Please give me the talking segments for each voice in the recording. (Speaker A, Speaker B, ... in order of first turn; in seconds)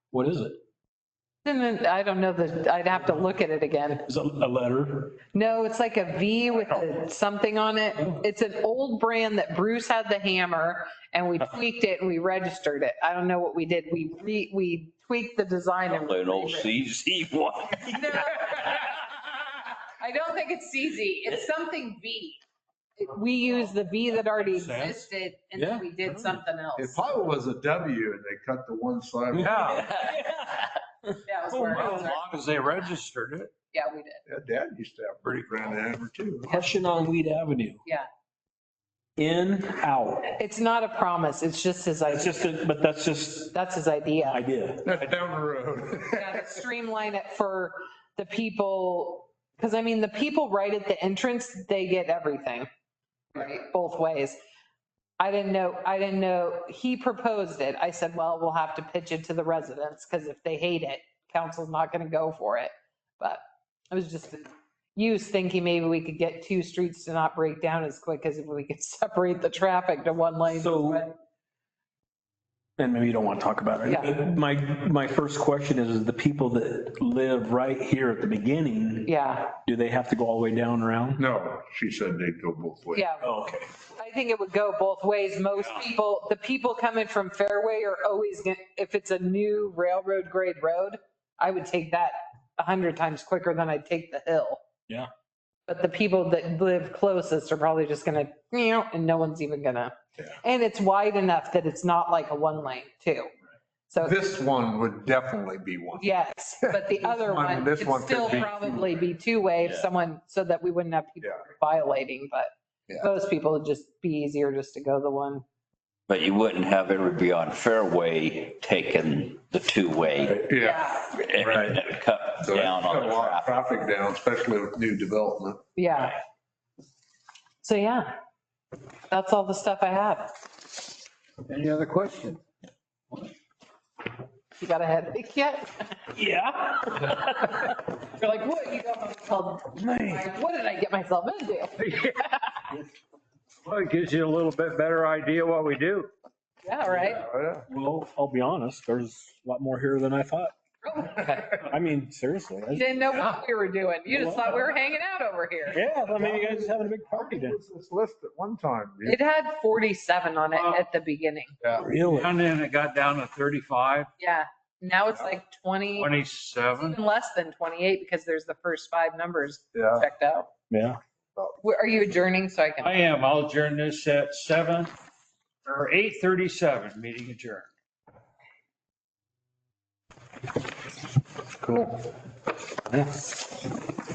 Speaker A: 0.1-0.6, 4.1-5.2, 8.0-8.2, 25.6-26.4, 29.3-31.2, 36.5-37.8, 39.2-40.3, 42.1-43.5, 44.2-44.8, 70.5-71.0, 72.8-79.1, 79.6-81.2, 83.2-83.7, 136.1-137.6, 139.8-140.2, 147.7-150.5, 151.5-153.2, 154.1-154.7, 155.7-157.6, 161.8-162.3, 170.7-171.0
Speaker B: 1.4-4.1, 5.3-16.7, 17.9-19.1, 20.0-22.4, 23.0-27.1, 31.2-32.2, 33.7-34.2, 36.5-36.7, 40.4-42.6, 43.5-44.4, 46.1-52.7, 53.3-54.4, 55.2-71.2, 73.9-74.1, 79.0-79.6, 82.9-83.3, 84.0-94.6, 95.7-103.3, 103.9-104.2, 106.0-115.4, 120.5-121.2, 125.8-126.2, 127.6-128.1, 129.1-130.3, 134.6-136.0, 137.6-142.5, 146.6-147.2, 150.8-151.6, 152.7-155.8, 159.1-161.6, 164.2-166.1, 166.8-170.5, 171.6-173.0
Speaker C: 15.9-18.5, 109.6-109.9, 116.1-120.4, 121.1-123.5
Speaker D: 24.4-25.1, 29.4-29.9, 31.5-33.5, 131.5-132.4, 141.8-142.3, 143.6-146.1, 160.6-160.8, 161.8-164.1, 166.0-167.0, 172.8-174.9, 175.7-177.7
Speaker E: 26.8-29.9, 34.3-36.5, 44.9-46.6, 81.2-83.1, 104.0-109.0, 120.3-121.8, 122.4-125.6, 147.0-147.7, 156.1-159.2, 161.6-161.9, 169.7-170.1, 181.6-182.0